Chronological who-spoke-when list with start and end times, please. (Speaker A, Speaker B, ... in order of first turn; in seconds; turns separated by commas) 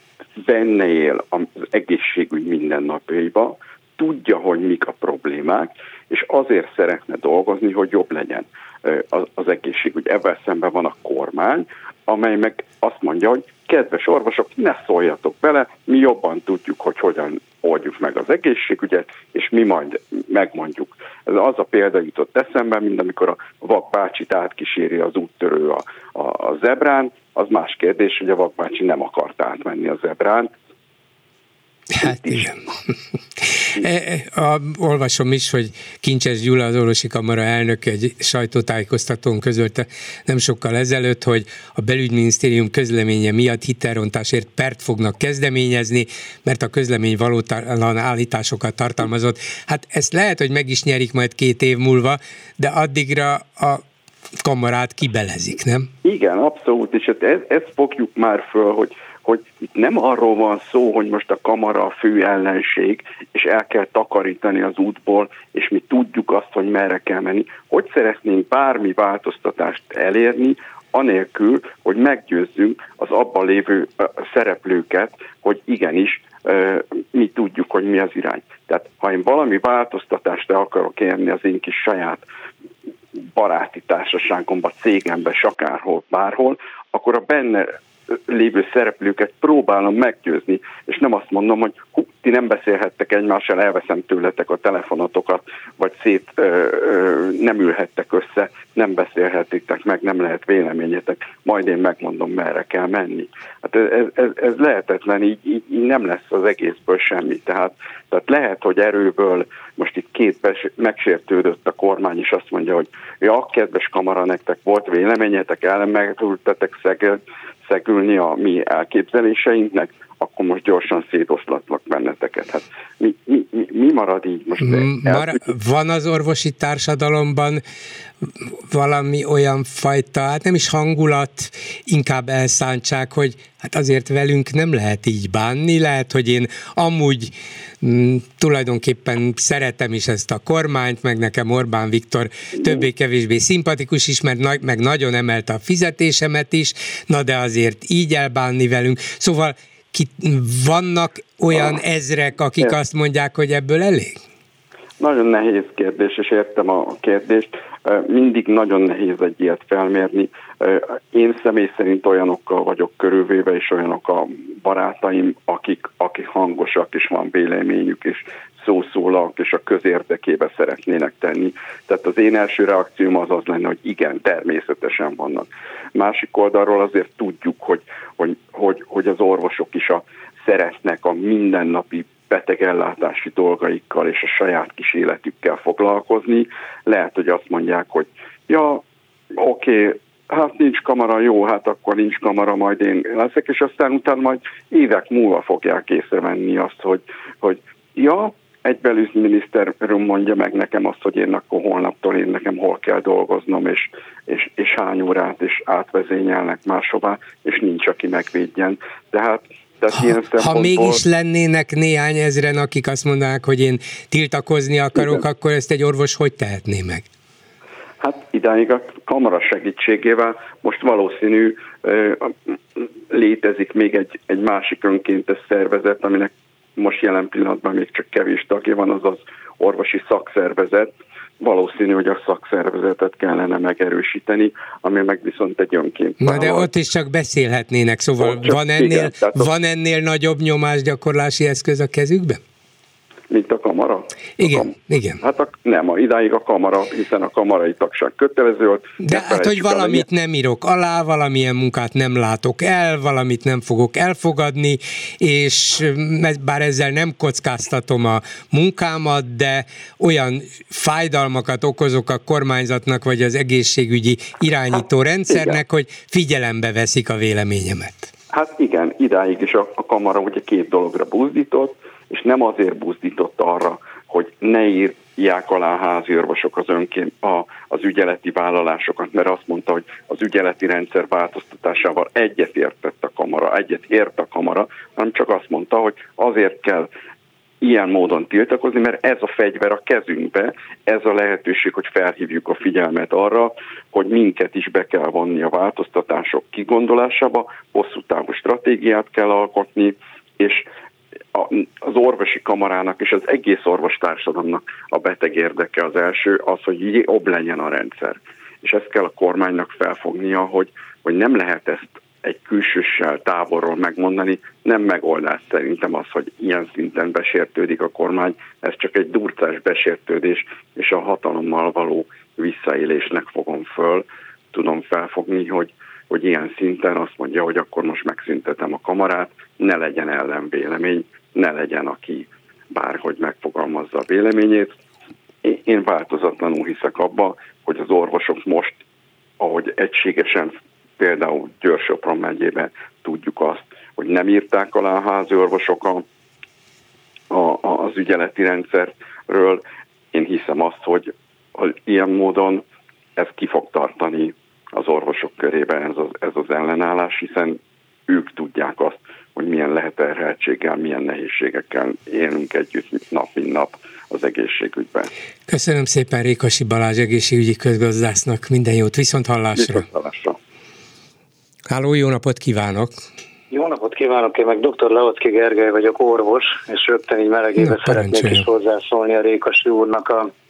Speaker A: 0.4-30.5, Speaker B: 32.0-32.9, Speaker A: 32.0-32.5, Speaker B: 33.8-53.8, Speaker B: 54.4-55.9, Speaker A: 56.0-82.2, Speaker A: 83.2-87.7, Speaker A: 88.3-125.4, Speaker B: 124.6-127.6, Speaker B: 128.2-154.2, Speaker A: 142.6-142.8, Speaker A: 155.0-188.8, Speaker A: 189.4-211.0, Speaker B: 210.4-217.1, Speaker A: 214.9-215.2, Speaker A: 218.0-236.7, Speaker B: 236.2-242.4, Speaker A: 238.2-239.5, Speaker A: 243.3-250.1, Speaker B: 244.4-245.2, Speaker B: 249.0-268.1, Speaker A: 264.7-265.6, Speaker A: 268.3-286.9, Speaker A: 287.6-300.7, Speaker A: 301.3-334.8, Speaker A: 335.4-338.8, Speaker A: 339.4-346.0, Speaker A: 347.3-349.6, Speaker A: 350.1-352.6, Speaker A: 353.1-365.1, Speaker B: 365.5-369.9, Speaker A: 369.5-370.4, Speaker B: 371.7-372.9, Speaker C: 373.5-380.3, Speaker B: 377.6-378.4